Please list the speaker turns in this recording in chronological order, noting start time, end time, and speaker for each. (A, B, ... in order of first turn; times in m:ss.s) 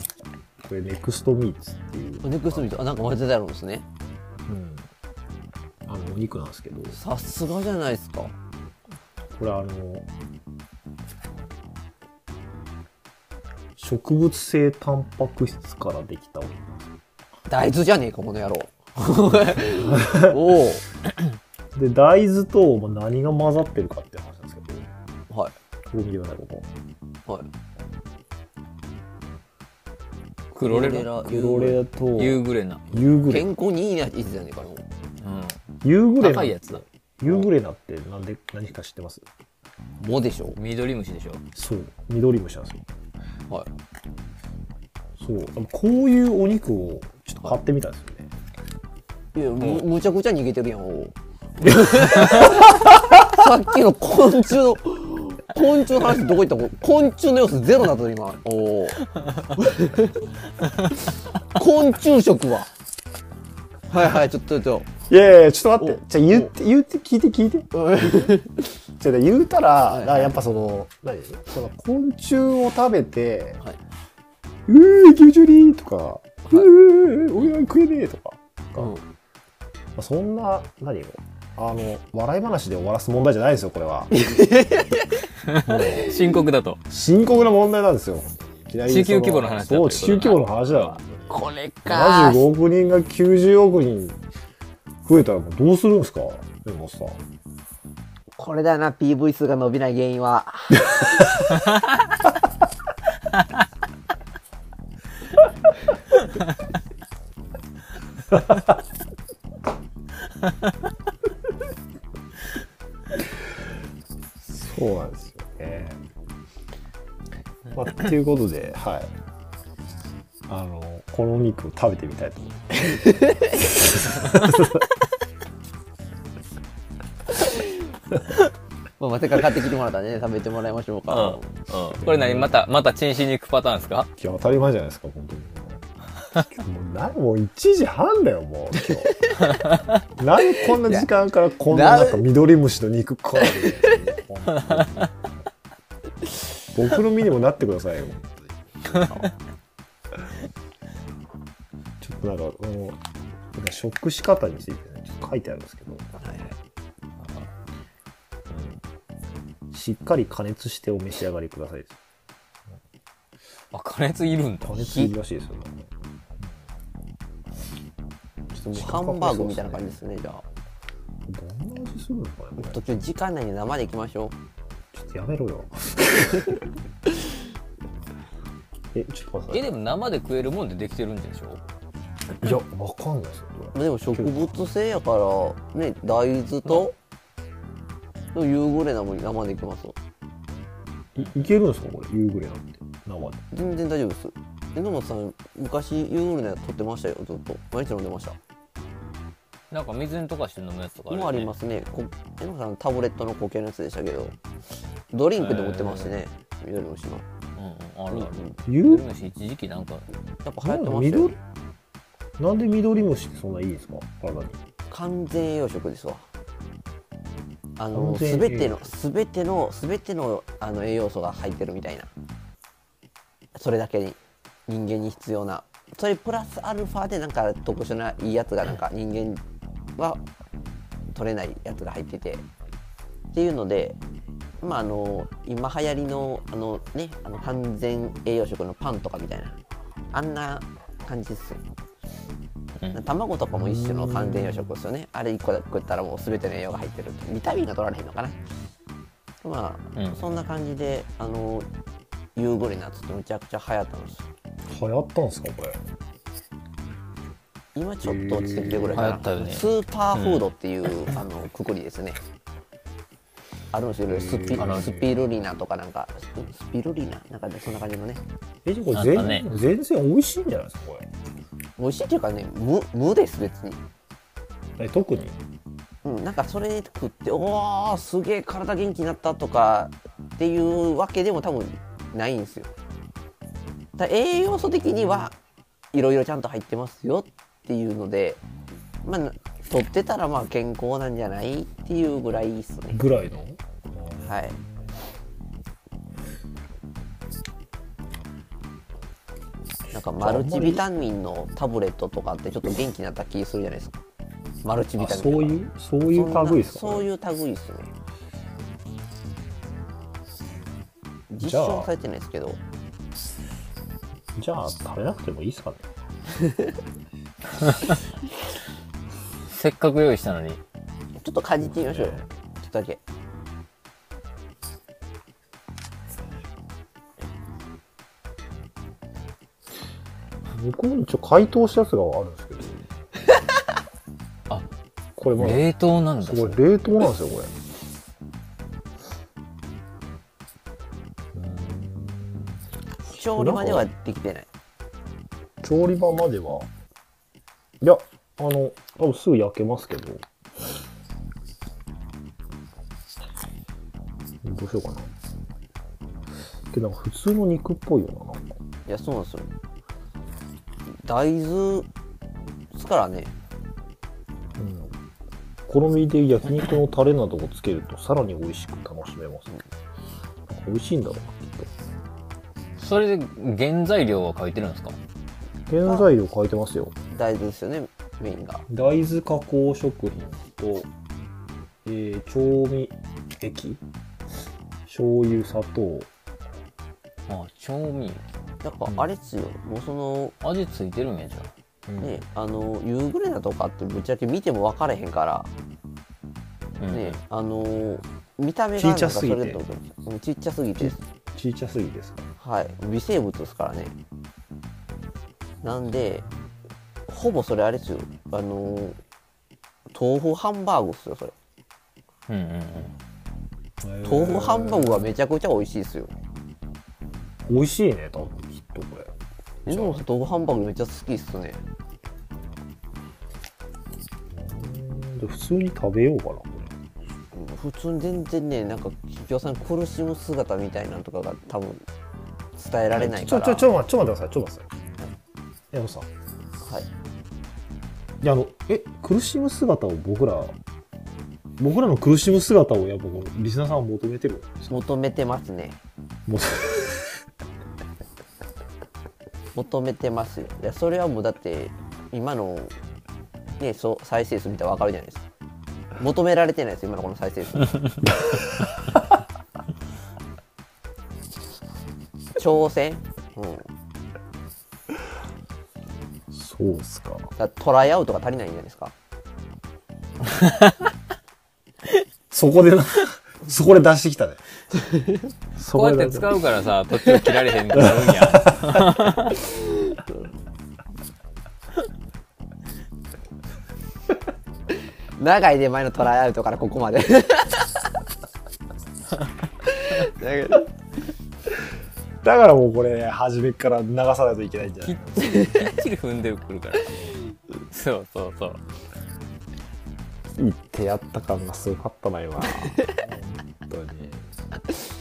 0:00.6-0:02.8 A
0:02.2-0:03.8 B
0:04.5-0:04.9 A
0:05.8-0:07.0 A
0:06.9-0:08.3 B
0:09.3-0:10.1 A
0:13.8-0:16.9 A
0:17.5-0:20.8 B
0:19.7-0:20.4 A
0:21.8-0:24.9 A
0:25.9-0:26.7 A
0:30.5-0:31.1 C
0:30.6-0:31.8 B
0:30.9-0:33.5 A
0:32.1-0:33.0 C
0:33.1-0:34.8 B
0:35.2-0:35.6 C
0:35.8-0:39.2 A
0:36.2-0:37.5 C
0:40.0-0:40.6 B
0:40.5-0:41.4 C
0:41.5-0:42.9 A
0:45.2-0:48.3 A
0:49.3-1:00.1 B
1:01.5-1:02.7 B
1:03.9-1:04.9 B
1:05.0-1:08.3 A
1:05.8-1:06.5 B
1:07.7-1:08.6 B
1:09.0-1:13.6 A
1:09.9-1:10.4 B
1:14.7-1:19.0 A
1:18.8-1:19.0 B
1:20.0-1:24.2 A
1:24.1-1:25.2 B
1:25.4-1:26.8 C
1:25.6-1:26.3 A
1:26.9-1:34.2 A
1:28.8-1:30.4 C
1:31.3-1:32.4 B
1:35.0-1:37.2 A
1:38.4-1:41.3 B
1:54.4-1:56.0 A
1:57.7-1:59.1 A
2:00.5-2:04.8 A
2:03.0-2:03.4 B
2:09.0-2:11.5 B
2:11.1-2:14.1 C
2:11.9-2:12.6 A
2:14.2-2:15.8 A
2:16.3-2:19.2 A
2:19.2-2:19.5 B
2:19.5-2:19.8 C
2:20.2-2:25.2 A
2:21.6-2:22.3 B
2:23.4-2:24.0 B
2:24.5-2:25.1 C
2:26.7-2:28.6 A
2:29.0-2:29.3 B
2:32.0-2:33.0 A
2:33.5-2:36.1 A
2:36.2-2:36.6 B
2:37.2-2:37.5 C
2:38.5-2:38.8 A
2:39.7-2:42.0 A
2:43.7-2:45.1 C
2:44.6-2:45.8 A
2:48.5-2:50.0 A
2:48.6-2:50.4 B
2:51.3-2:53.0 A
2:52.6-2:54.3 B
2:54.9-2:56.7 A
2:58.9-2:59.7 A
2:59.5-3:01.6 C
3:02.4-3:04.6 A
3:03.7-3:06.9 B
3:08.3-3:10.0 B
3:11.1-3:13.4 A
3:13.5-3:18.4 B
3:19.7-3:21.5 C
3:21.1-3:24.4 B
3:25.1-3:27.2 B
3:25.4-3:26.2 C
3:27.6-3:30.0 C
3:28.1-3:28.6 B
3:28.6-3:29.1 A
3:30.4-3:31.3 B
3:30.6-3:31.4 A
3:32.4-3:34.6 A
3:34.9-3:36.3 B
3:37.8-3:42.1 B
3:37.9-3:38.9 A
3:43.5-3:49.4 B
3:50.0-3:50.2 B
3:51.1-3:52.5 B
3:53.3-3:54.0 B
3:54.6-3:59.6 B
4:00.1-4:01.6 B
4:02.9-4:08.4 B
4:03.5-4:04.7 A
4:09.4-4:11.7 B
4:09.9-4:10.2 C
4:12.3-4:14.3 B
4:14.7-4:15.8 A
4:17.7-4:22.2 B
4:18.0-4:19.1 A
4:18.9-4:20.5 C
4:23.7-4:28.2 B
4:24.1-4:25.1 A
4:24.6-4:25.0 C
4:28.6-4:31.1 A
4:28.9-4:29.5 C
4:31.8-4:33.8 B
4:34.8-4:35.4 A
4:36.0-4:42.7 B
4:44.0-4:45.4 B
4:44.7-4:45.3 A
4:45.9-4:48.4 B
4:49.0-4:53.0 B
4:52.9-4:54.9 A
4:54.2-4:54.6 B
4:59.9-5:04.0 B
5:00.2-5:00.8 A
5:04.6-5:07.9 B
5:05.0-5:07.1 A
5:11.3-5:12.6 B
5:11.4-5:11.9 A
5:14.4-5:15.8 A
5:16.4-5:16.7 B
5:19.5-5:20.6 C
5:21.2-5:23.0 B
5:21.6-5:22.2 A
5:30.5-5:32.9 A
5:35.2-5:35.7 A
5:35.3-5:36.6 C
5:36.2-5:37.5 A
5:41.3-5:43.9 A
5:43.1-5:44.5 B
5:45.6-5:46.7 A
5:47.8-5:50.2 A
5:54.4-5:55.1 A
5:56.7-5:58.6 A
5:58.9-5:59.5 B
6:00.9-6:01.9 B
6:02.7-6:03.3 B
6:04.6-6:04.9 A
6:05.7-6:09.6 A
6:10.5-6:11.7 A
6:12.8-6:15.0 C
6:15.7-6:16.9 A
6:15.8-6:16.1 B
6:17.1-6:18.6 B
6:18.7-6:20.9 A
6:21.8-6:23.8 A
6:24.9-6:26.1 A
6:27.3-6:28.2 C
6:28.6-6:30.3 B
6:30.4-6:31.5 C
6:31.9-6:32.2 A
6:32.0-6:35.5 B
6:36.8-6:37.2 C
6:36.9-6:41.0 B
6:38.8-6:39.6 A
6:40.8-6:42.3 A
6:42.4-6:43.9 B
6:45.6-6:46.3 B
6:47.1-6:49.0 B
6:49.9-6:51.3 B
6:52.3-6:52.9 C
6:53.8-6:55.1 A
6:54.0-6:56.1 B
6:57.5-6:59.1 A
6:59.6-7:00.0 A
6:59.6-7:01.6 B
7:04.3-7:06.7 A
7:07.3-7:11.8 B
7:12.5-7:13.7 B
7:12.9-7:14.7 A
7:15.7-7:16.1 A
7:16.6-7:16.9 B
7:18.2-7:20.5 A
7:21.6-7:24.7 A
7:24.7-7:25.8 B
7:26.3-7:27.1 A
7:29.5-7:32.7 B
7:33.6-7:35.2 B
7:36.0-7:38.0 B
7:42.4-7:43.7 B
7:46.3-7:47.3 A
7:47.4-7:48.9 B
7:52.3-7:54.4 A
7:54.9-7:55.2 B
7:55.6-7:56.4 A
7:55.7-7:59.4 C
7:57.7-7:58.4 A
8:05.2-8:07.8 B
8:09.6-8:10.7 B
8:12.2-8:15.1 A
8:14.7-8:18.6 C
8:15.2-8:15.5 B
8:20.4-8:24.3 A